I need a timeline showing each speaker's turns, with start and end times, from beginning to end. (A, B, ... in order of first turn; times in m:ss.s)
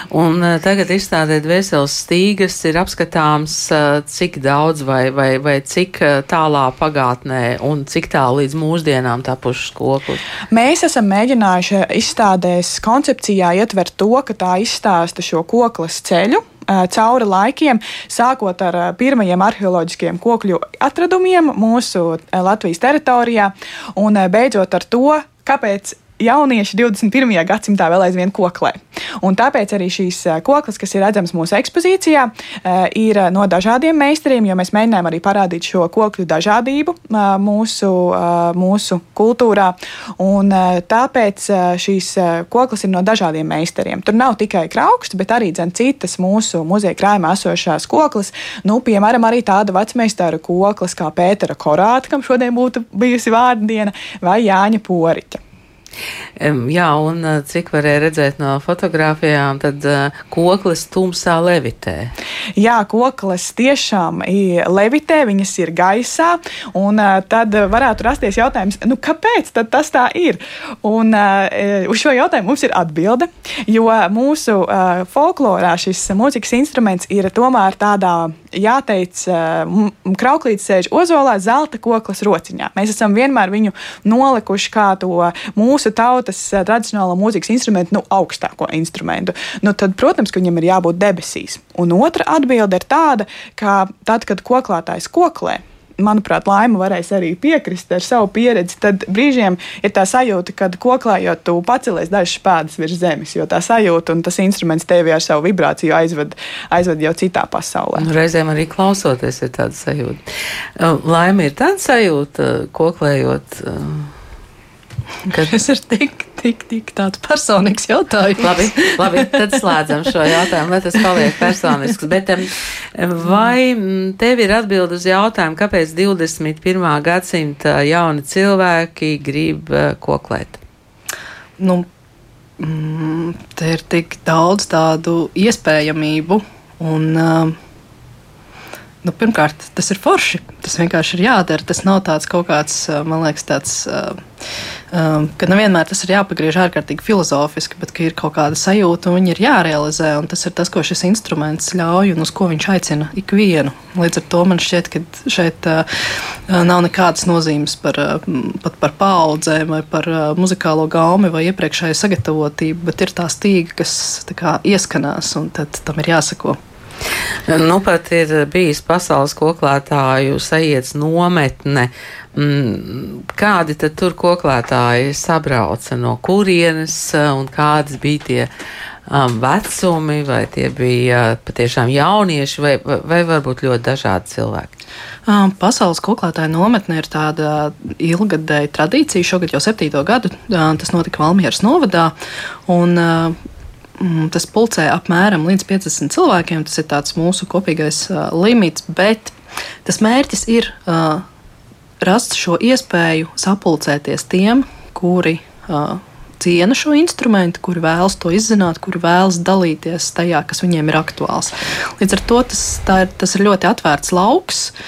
0:00.1-0:10.2 A
0:10.5-0:55.4 B
0:56.4-1:02.1 A
1:02.6-1:48.1 B
1:48.0-1:50.2 A
1:50.8-1:54.1 A
1:55.3-1:59.3 C
1:58.4-2:10.6 A
2:11.6-2:11.8 C
2:12.6-2:17.5 C
2:19.0-2:24.2 C
2:24.9-2:46.6 C
2:47.5-2:58.5 A
2:59.1-3:04.7 A
3:05.2-3:12.1 C
3:12.7-3:13.4 C
3:14.0-3:19.3 C
3:19.8-3:21.2 C
3:22.0-3:34.7 C